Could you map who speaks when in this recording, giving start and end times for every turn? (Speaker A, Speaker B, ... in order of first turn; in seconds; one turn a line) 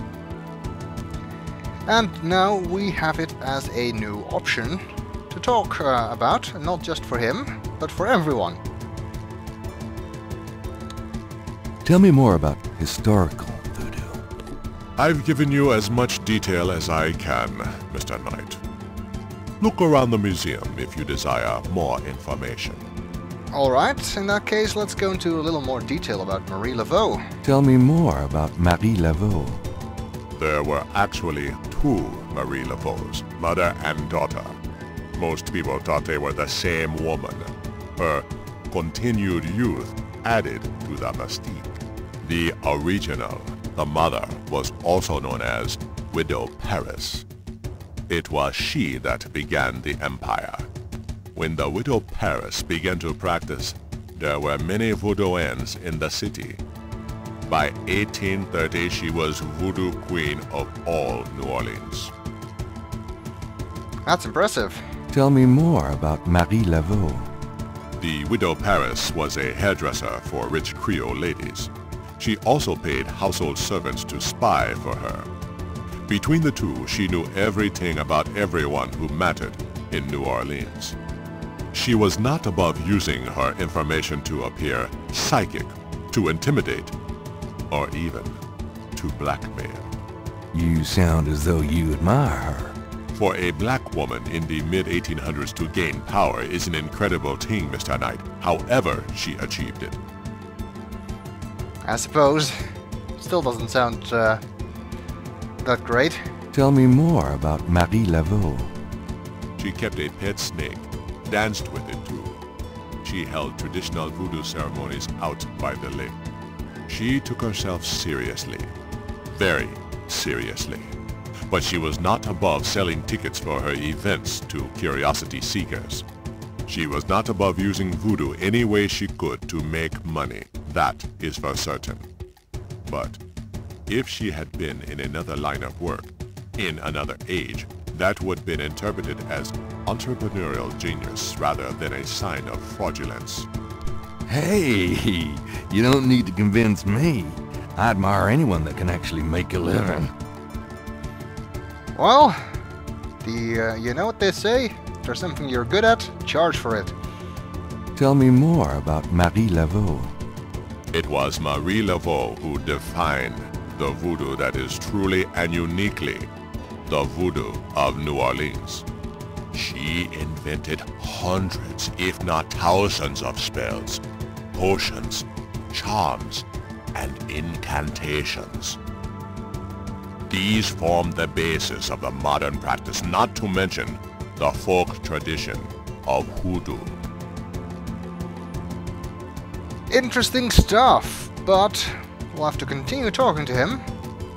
Speaker A: 1.9-8.6
Speaker B: 11.8-14.2
Speaker C: 15.0-18.6
Speaker C: 19.6-22.8
Speaker A: 23.5-27.2
Speaker B: 27.4-29.6
Speaker C: 30.3-34.6
Speaker C: 35.1-47.2
Speaker C: 48.1-50.7
Speaker C: 51.3-56.6
Speaker C: 57.5-62.1
Speaker A: 64.0-64.8
Speaker B: 65.1-67.3
Speaker C: 68.0-75.3
Speaker C: 76.0-81.0
Speaker C: 81.7-86.9
Speaker C: 87.7-88.4
Speaker C: 88.9-89.9
Speaker B: 90.5-92.8
Speaker C: 93.1-100.0
Speaker A: 101.8-102.5
Speaker A: 103.2-104.4
Speaker A: 105.6-106.2
Speaker B: 106.5-108.7
Speaker C: 109.6-112.4
Speaker C: 113.0-116.2
Speaker C: 116.9-118.7
Speaker C: 119.3-120.9
Speaker C: 121.5-126.0
Speaker C: 126.7-132.1
Speaker C: 132.8-133.2
Speaker C: 133.9-143.5
Speaker B: 144.3-150.1
Speaker A: 151.9-152.4
Speaker A: 153.2-156.9
Speaker B: 157.9-160.1
Speaker C: 160.9-166.3
Speaker C: 166.9-168.8
Speaker C: 169.5-174.0
Speaker C: 174.5-178.8
Speaker C: 180.3-187.0
Speaker A: 189.9-193.8